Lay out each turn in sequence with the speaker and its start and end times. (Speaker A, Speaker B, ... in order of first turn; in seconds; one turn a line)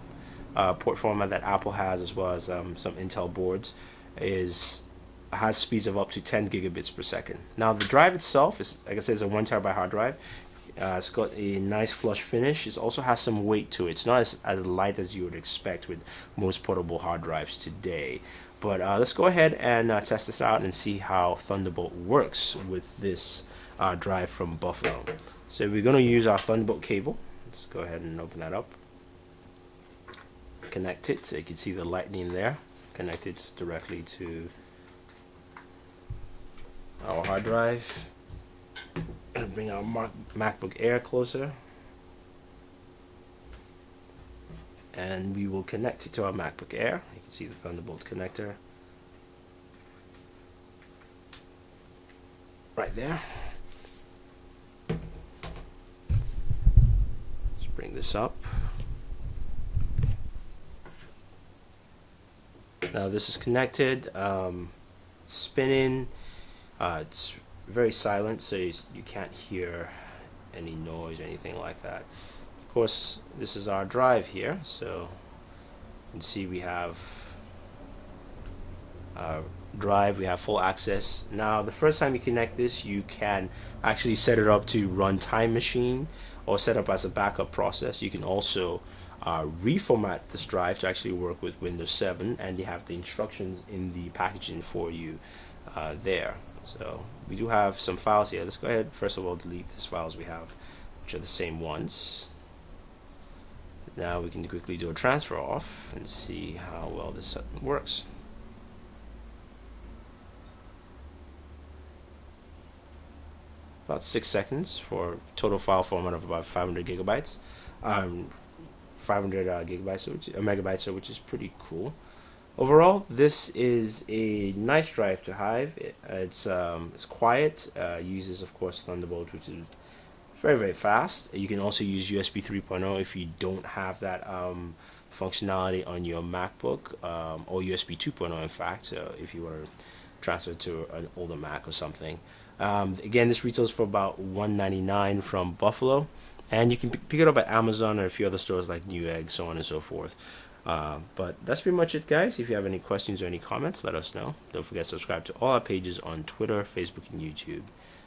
Speaker A: 0.5-10.2
Speaker A: 10.8-28.8
Speaker A: 30.7-34.5
Speaker A: 37.0-38.1
Speaker A: 39.3-41.5
Speaker A: 44.9-48.6
Speaker A: 52.8-53.6
Speaker A: 57.6-58.8
Speaker A: 62.9-66.1
Speaker A: 66.8-72.1
Speaker A: 72.6-75.2
Speaker A: 76.1-77.4
Speaker A: 79.1-102.3
Speaker A: 104.0-108.0
Speaker A: 113.9-118.3
Speaker A: 118.9-122.0
Speaker A: 122.6-129.7
Speaker A: 130.3-157.7